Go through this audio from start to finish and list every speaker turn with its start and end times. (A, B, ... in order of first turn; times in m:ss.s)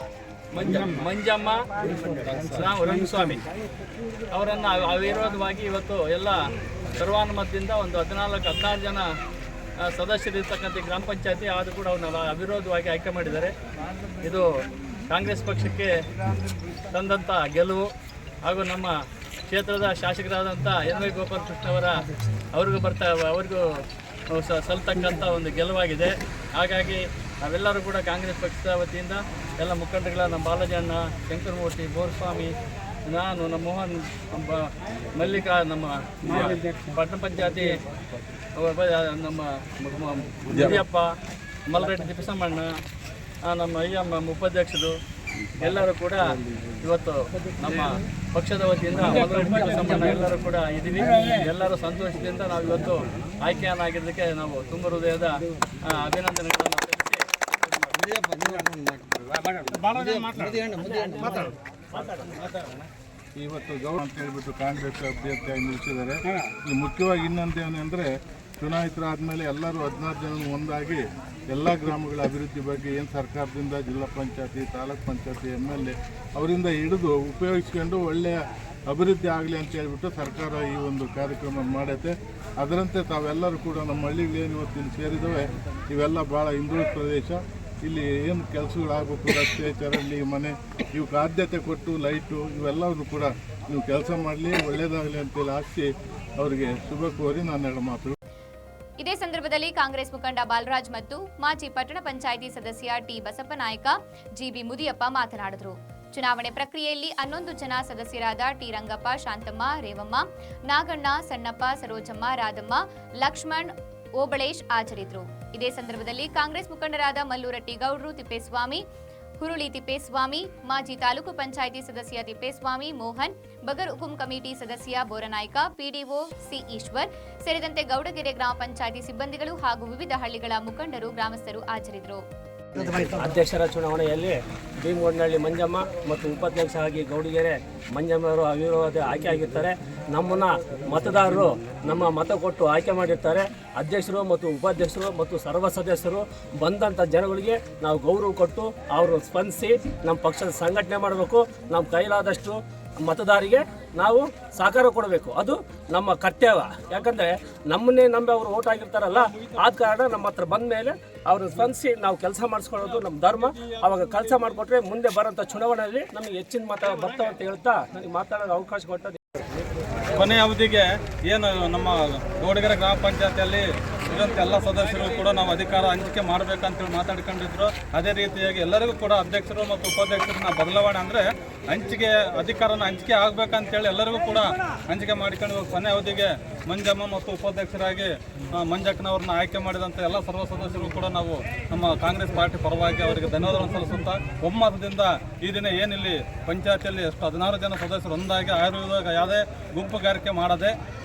0:00.5-0:01.6 A
0:02.4-0:03.4 A
0:04.3-0:06.4 A
0:07.0-0:09.1 A
0:09.9-0:13.5 A
0:14.2-0:14.5 A
0:15.1-0:15.9 A
0:16.9-0:17.9 A
0:18.4-0:18.9 A
0:19.5-0:23.6 A
0:24.3-0:32.5 A
0:33.0-0:37.7 A
0:38.6-0:41.1 A
0:40.5-0:40.8 B
0:41.7-0:42.7 A
0:43.5-0:44.9 A
0:45.6-0:57.2 A
0:59.6-1:00.7 B
1:00.7-1:02.4 C
1:03.4-1:38.2 D
1:39.0-1:58.8 E
1:59.4-2:12.2 E
2:12.8-2:49.5 C
2:50.1-3:20.7 B